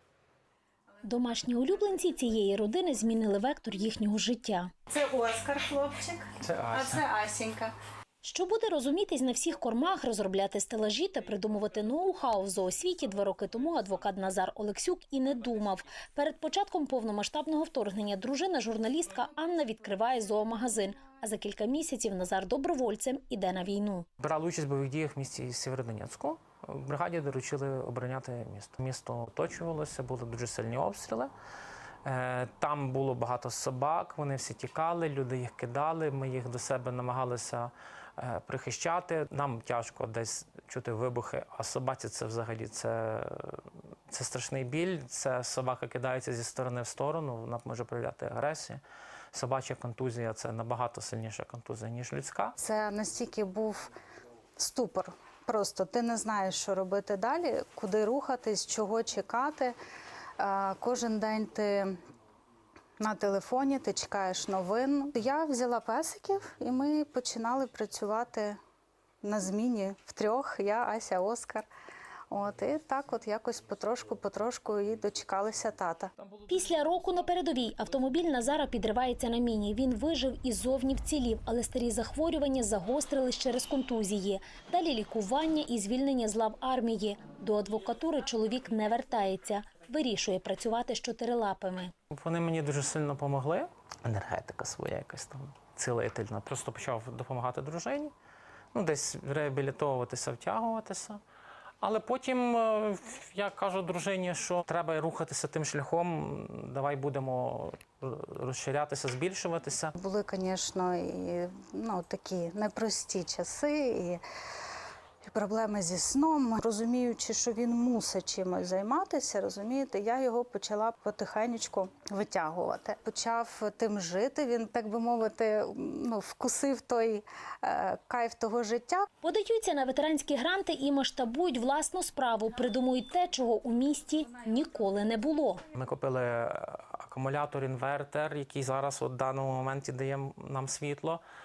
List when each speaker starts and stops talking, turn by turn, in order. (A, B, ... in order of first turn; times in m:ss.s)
0:01.0-0:04.7 A
0:04.9-0:07.7 B
0:06.5-0:07.0 C
0:08.2-0:24.1 A
0:24.2-0:31.3 C
0:32.0-0:48.8 C
0:49.3-0:52.6 C
0:52.6-0:53.9 B
0:54.6-0:59.8 B
1:00.4-1:02.0 B
1:03.0-1:08.6 B
1:09.2-1:11.7 B
1:12.3-1:16.1 B
1:16.5-1:31.9 A
1:32.1-1:38.1 C
1:38.7-1:41.2 C
1:41.8-1:50.0 C
1:50.0-1:54.2 B
1:55.2-2:09.1 B
2:09.2-2:15.6 A
2:15.7-2:21.2 C